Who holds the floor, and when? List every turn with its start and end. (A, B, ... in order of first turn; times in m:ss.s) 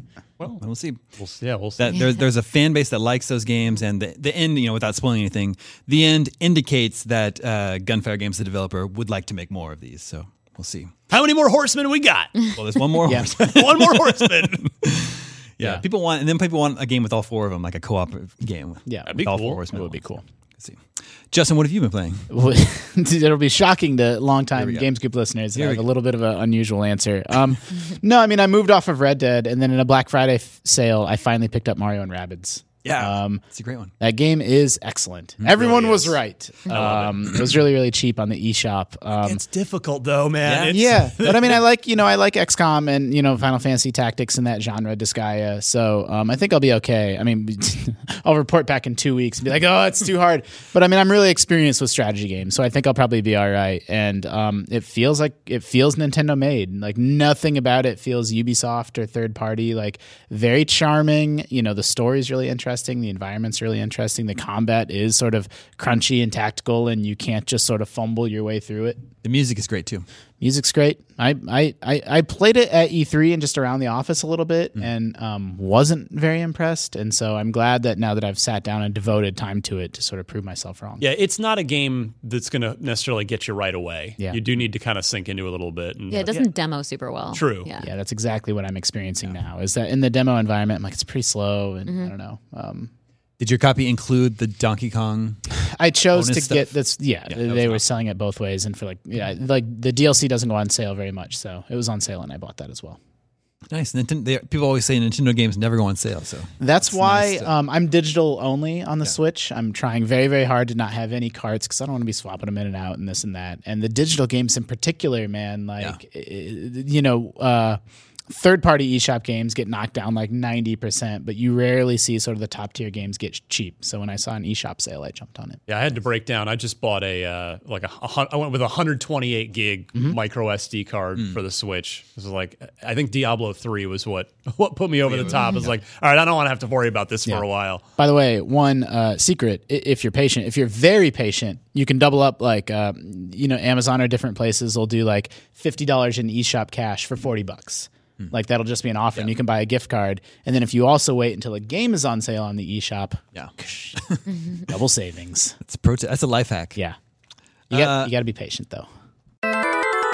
0:00.6-0:01.0 A
0:01.2-0:02.0 B
0:01.8-0:10.9 A
0:11.1-0:14.7 B
0:12.6-0:20.0 A
0:13.0-0:13.4 C
0:18.9-0:20.2 C
0:19.1-0:19.6 B
0:21.3-0:22.3 A
0:22.3-0:33.4 C
0:24.6-0:24.9 A
0:25.6-0:25.8 A
0:32.8-0:33.9 A
0:34.0-0:39.4 C
0:35.4-0:35.7 A
0:35.6-0:36.2 B
0:36.7-0:37.1 B
0:36.7-0:37.0 A
0:39.2-0:41.6 B
0:40.4-0:40.8 A
0:40.7-1:09.0 C
1:09.2-1:10.1 A
1:10.4-1:21.1 C
1:21.0-1:26.5 B
1:26.1-1:27.9 D
1:27.3-1:27.7 B
1:27.8-1:32.9 C
1:31.9-1:32.1 D
1:33.4-1:35.4 A
1:35.6-1:43.0 C
1:36.1-1:36.6 A
1:37.3-1:37.8 A
1:43.7-1:47.5 A
1:46.6-2:05.6 C
2:05.7-2:17.8 B
2:15.1-2:15.7 A
2:18.0-2:34.0 C
2:33.4-2:34.2 A
2:34.6-2:35.6 C
2:35.6-2:36.8 A
2:37.7-2:38.1 A
2:37.7-2:38.9 C